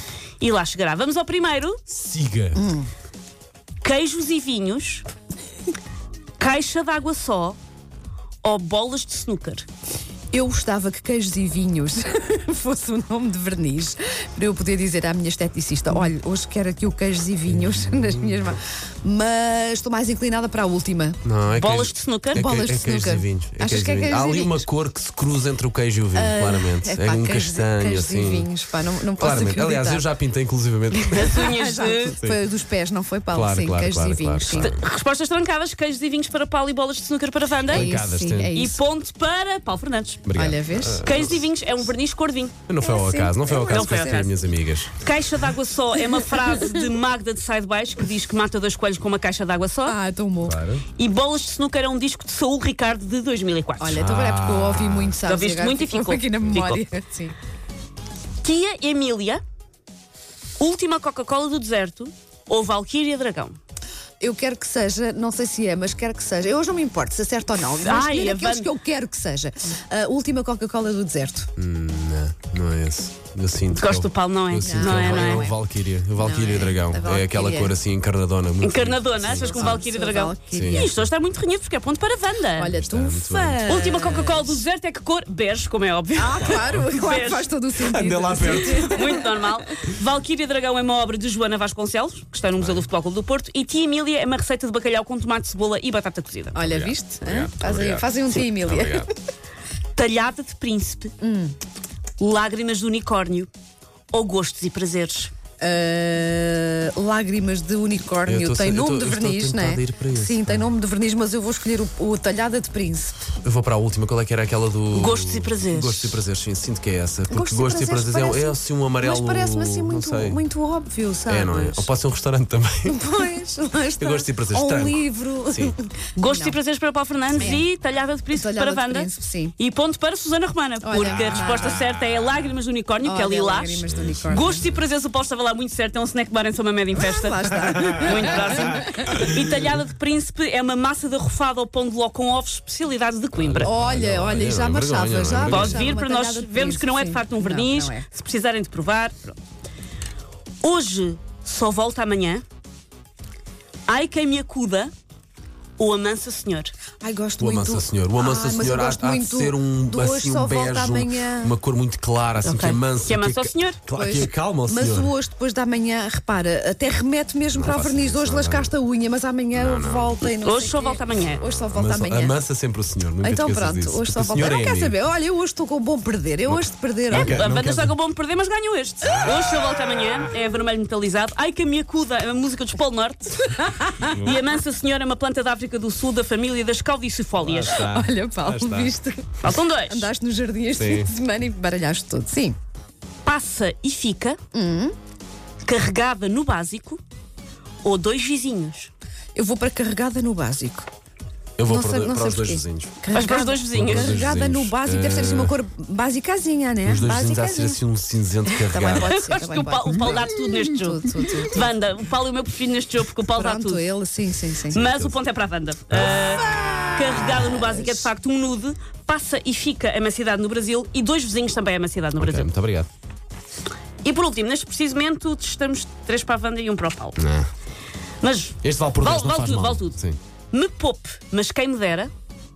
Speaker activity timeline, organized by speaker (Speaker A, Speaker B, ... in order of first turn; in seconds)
Speaker A: 0.4-1.8, 3.8-5.1, 6.4-7.6, 8.4-9.7, 21.6-22.4, 31.0-32.2, 34.5-38.0, 38.5-40.3, 41.0-42.5, 43.7-44.4, 45.0-50.0, 51.0-54.0, 55.2-56.8, 58.4-59.4, 60.6-63.6, 67.8-68.7, 73.7-75.5, 78.6-82.8, 83.7-87.5, 88.4-96.7, 100.0-101.1, 102.2-103.5, 104.1-105.3, 114.9-116.2, 126.2-143.7, 145.4-149.4, 150.6-152.4, 153.9-154.9, 155.8-156.7, 162.4-163.8, 170.4-171.5, 177.1-187.8, 189.4-190.1, 193.2-194.4, 195.6-197.0, 197.8-198.9, 203.1-204.2, 208.9-213.8, 214.7-222.5, 224.0-227.2, 228.2-230.0, 230.5-232.1
Speaker B: 1.9-2.6, 17.5-18.6, 21.2-28.5, 29.2-31.5, 32.1-32.5, 33.3-34.8, 37.7-38.5, 40.3-41.5, 42.7-45.1, 50.4-50.9, 53.9-55.2, 71.6-79.8, 80.5-81.0, 82.7-84.3, 87.8-89.2, 92.6-92.9, 96.6-99.1, 108.2-110.7, 113.4-120.4, 121.3-123.1, 124.0-125.8, 127.3-127.6, 131.2-132.4, 133.8-134.8, 143.3-145.9, 157.4-165.1, 167.5-168.7, 169.5-170.4, 171.3-175.0, 176.5-177.9, 187.4-188.9, 190.8-191.1, 201.6-203.0, 203.7-205.6, 206.8-209.2, 214.8-215.2, 215.9-216.2, 222.2-222.9, 227.2-227.5, 228.6-230.2
Speaker C: 2.5-2.9, 10.3-21.2, 22.3-24.6, 26.1-30.1, 31.3-34.7, 37.7-38.8, 40.3-41.0, 42.8-44.3, 46.0-46.7, 49.9-50.6, 53.8-57.4, 64.2-71.5, 74.6-75.6, 76.2-77.7, 79.4-81.1, 82.6-84.6, 86.2-89.4, 96.5-99.1, 101.2-101.5, 105.6-113.3, 117.3-121.9, 122.9-126.6, 127.4-127.7, 128.3-129.5, 130.8-131.8, 133.0-134.7, 136.9-139.2, 143.6-148.1, 157.0-161.5, 163.9-172.4, 173.2-177.4, 187.7-189.3, 189.9-192.6, 194.5-194.9, 199.3-200.9, 201.7-207.8, 208.5-211.7, 213.3-214.9, 216.2-218.1